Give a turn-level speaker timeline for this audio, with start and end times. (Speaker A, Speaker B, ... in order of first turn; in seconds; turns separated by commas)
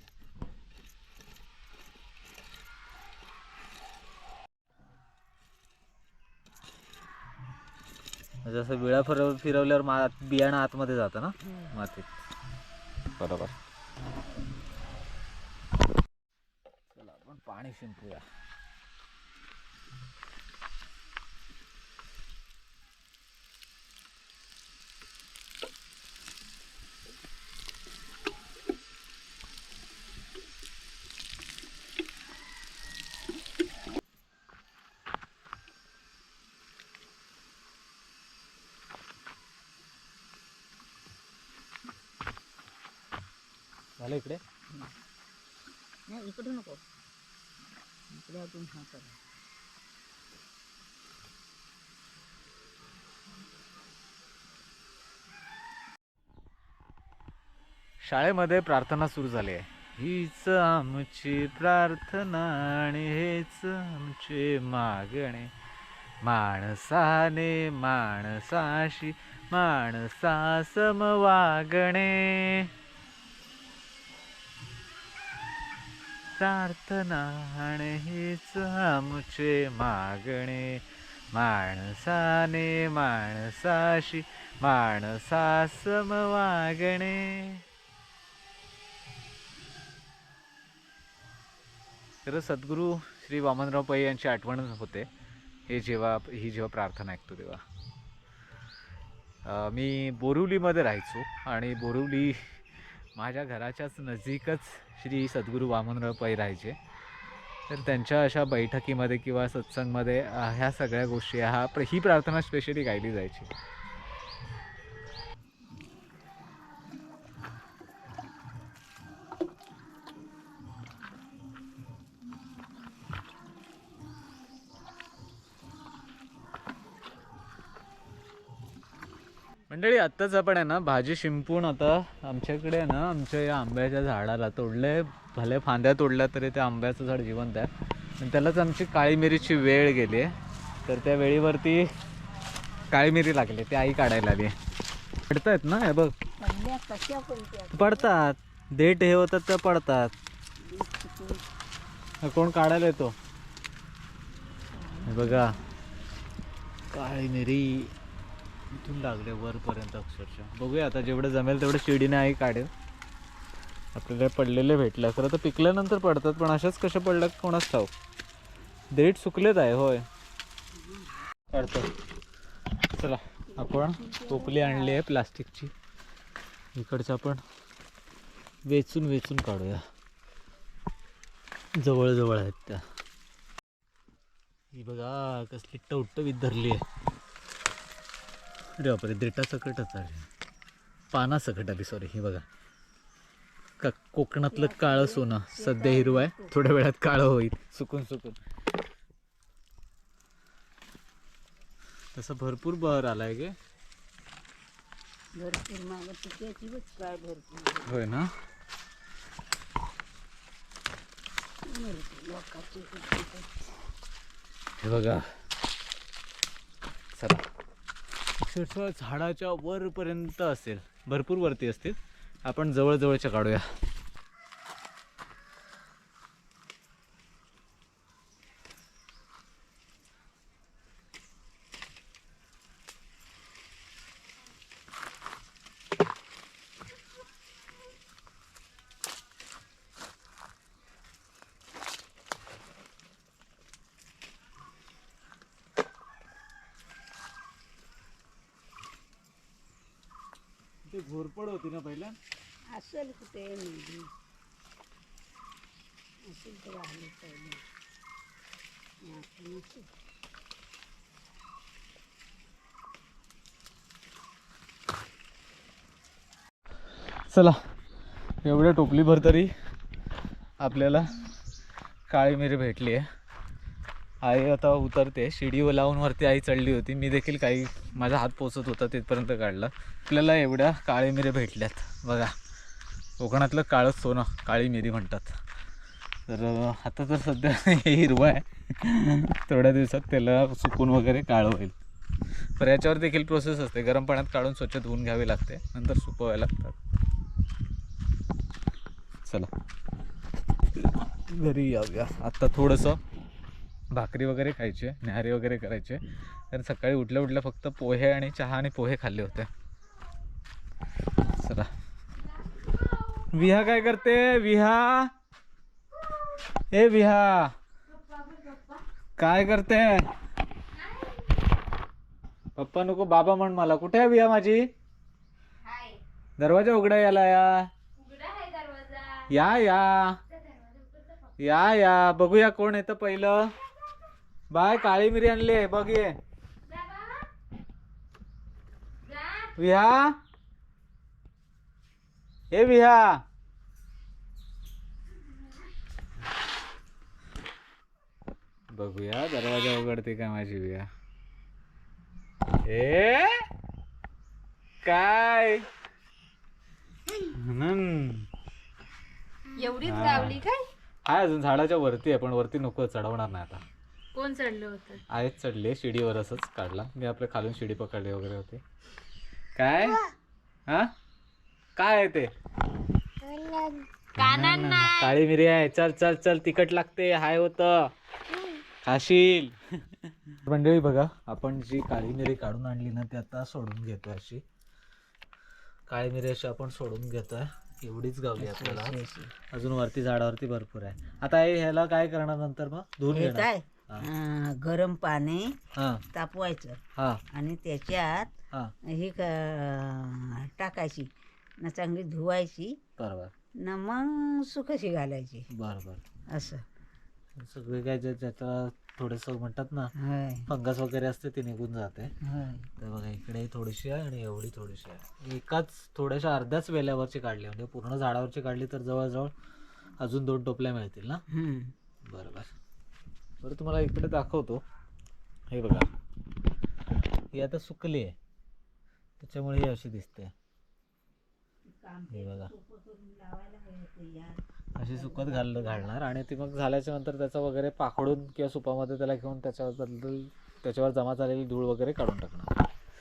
Speaker A: 8.4-12.2, Speaker A: 13.2-13.6, Speaker A: 16.9-18.2, Speaker A: 44.0-44.4, Speaker B: 46.1-46.8, Speaker B: 48.1-49.2, Speaker A: 58.0-65.5, Speaker A: 66.2-72.7, Speaker A: 76.3-87.7, Speaker A: 92.2-95.1, Speaker A: 95.7-97.6, Speaker A: 99.4-106.8, Speaker A: 107.7-113.5, Speaker A: 129.7-140.3, Speaker A: 140.8-141.9, Speaker A: 142.9-144.6, Speaker A: 145.3-146.1, Speaker B: 146.4-148.1, Speaker A: 147.7-150.1, Speaker B: 150.6-151.4, Speaker A: 152.2-153.2, Speaker B: 154.7-155.6, Speaker A: 155.1-155.5, Speaker A: 156.9-157.9, Speaker A: 158.7-162.7, Speaker A: 163.9-167.9, Speaker A: 168.9-170.1, Speaker B: 170.8-171.2, Speaker A: 171.5-171.9, Speaker A: 172.9-175.7, Speaker B: 173.5-175.0, Speaker A: 176.8-177.4, Speaker A: 178.7-179.8, Speaker A: 181.8-182.8, Speaker A: 184.7-186.8, Speaker A: 188.8-190.3, Speaker A: 191.1-192.5, Speaker A: 193.8-198.4, Speaker B: 194.5-196.5, Speaker A: 202.2-203.6, Speaker B: 205.4-208.0, Speaker A: 207.9-208.3, Speaker B: 211.6-213.5, Speaker A: 214.8-215.3, Speaker A: 217.2-217.4, Speaker A: 218.4-223.7, Speaker A: 250.9-252.2, Speaker B: 252.7-254.1, Speaker B: 256.3-257.6, Speaker B: 259.0-259.9, Speaker A: 267.3-267.6, Speaker A: 268.4-269.5, Speaker A: 270.6-271.2, Speaker A: 272.1-273.1, Speaker A: 274.2-282.4, Speaker A: 283.2-285.4, Speaker A: 286.3-291.8, Speaker A: 292.6-296.8, Speaker A: 299.2-299.5, Speaker A: 300.8-303.0, Speaker A: 303.9-309.5, Speaker A: 311.2-311.7, Speaker A: 313.3-315.1, Speaker A: 316.7-317.6, Speaker C: 318.2-318.8, Speaker A: 319.2-320.1, Speaker A: 322.6-324.7, Speaker C: 325.6-326.0, Speaker A: 326.4-327.7, Speaker C: 328.0-329.3, Speaker A: 329.3-330.2, Speaker C: 330.5-331.1, Speaker A: 331.4-333.5, Speaker A: 334.5-336.2, Speaker C: 336.8-337.2, Speaker A: 339.5-340.2, Speaker A: 342.5-343.2, Speaker A: 348.7-350.9, Speaker A: 352.6-353.5, Speaker A: 354.8-355.7, Speaker A: 357.2-358.3, Speaker C: 359.6-360.7, Speaker A: 359.8-360.4, Speaker A: 361.0-363.6, Speaker C: 364.1-365.0, Speaker A: 365.1-368.6, Speaker A: 369.6-370.0, Speaker A: 370.7-370.9, Speaker A: 371.8-372.3, Speaker C: 373.3-375.1, Speaker A: 374.2-377.9, Speaker A: 378.8-384.4, Speaker A: 385.9-389.0, Speaker B: 388.4-389.3, Speaker A: 389.5-394.1, Speaker B: 393.1-395.5, Speaker A: 395.8-396.0, Speaker B: 396.1-396.8, Speaker A: 397.0-397.2, Speaker B: 397.3-398.3, Speaker B: 398.9-401.1, Speaker B: 401.6-402.8, Speaker A: 403.0-403.3, Speaker B: 403.6-405.5, Speaker A: 405.5-406.0, Speaker B: 406.3-406.6, Speaker A: 407.4-409.9, Speaker B: 410.0-410.5, Speaker A: 410.5-412.1, Speaker B: 412.2-412.7, Speaker A: 412.8-419.3, Speaker A: 420.0-421.2, Speaker B: 421.3-421.7, Speaker A: 422.1-422.5, Speaker A: 423.4-424.6, Speaker A: 425.5-425.9, Speaker A: 427.3-428.1, Speaker A: 429.2-430.3, Speaker B: 431.7-436.0, Speaker A: 432.1-432.5, Speaker A: 434.8-442.6